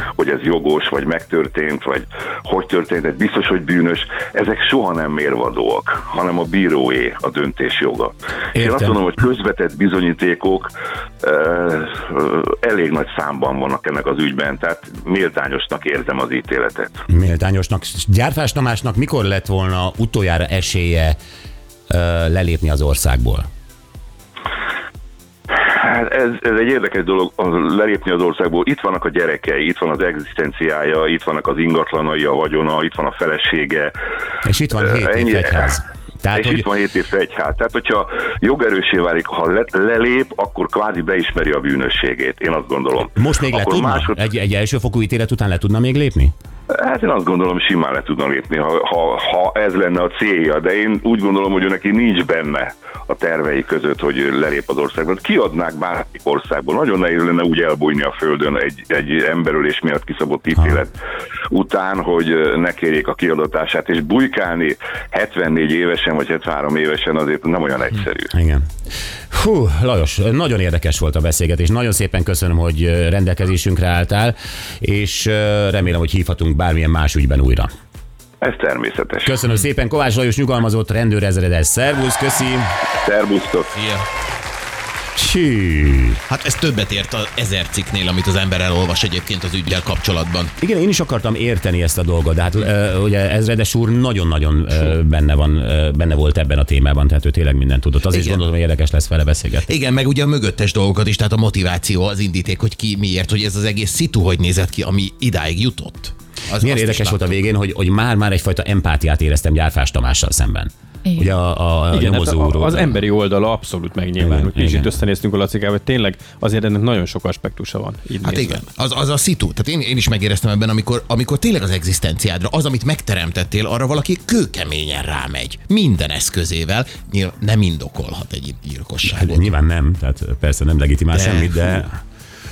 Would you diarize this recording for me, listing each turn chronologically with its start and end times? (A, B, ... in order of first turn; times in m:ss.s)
0:00.2-0:10.7 A
0:08.5-0:09.0 B
0:11.2-0:17.0 A
0:17.1-0:21.2 B
0:21.9-0:23.5 B
0:25.6-0:33.9 A
0:34.4-0:36.6 B
0:34.8-0:35.7 A
0:36.3-0:44.2 A
0:43.0-0:46.3 B
0:46.7-1:00.9 A
1:01.5-1:08.3 A
1:08.3-1:08.7 B
1:09.3-1:17.7 B
1:18.4-1:19.3 A
1:19.2-1:22.7 B
1:22.9-1:23.8 A
1:23.8-1:24.0 C
1:25.2-1:26.2 B
1:26.3-1:30.5 C
1:30.6-1:39.7 B
1:38.1-1:38.4 C
1:39.6-1:47.3 C
1:46.6-1:52.9 B
1:51.9-1:58.6 D
1:54.2-1:54.9 B
1:58.2-2:09.5 C
2:09.1-2:12.0 B
2:11.1-2:11.8 C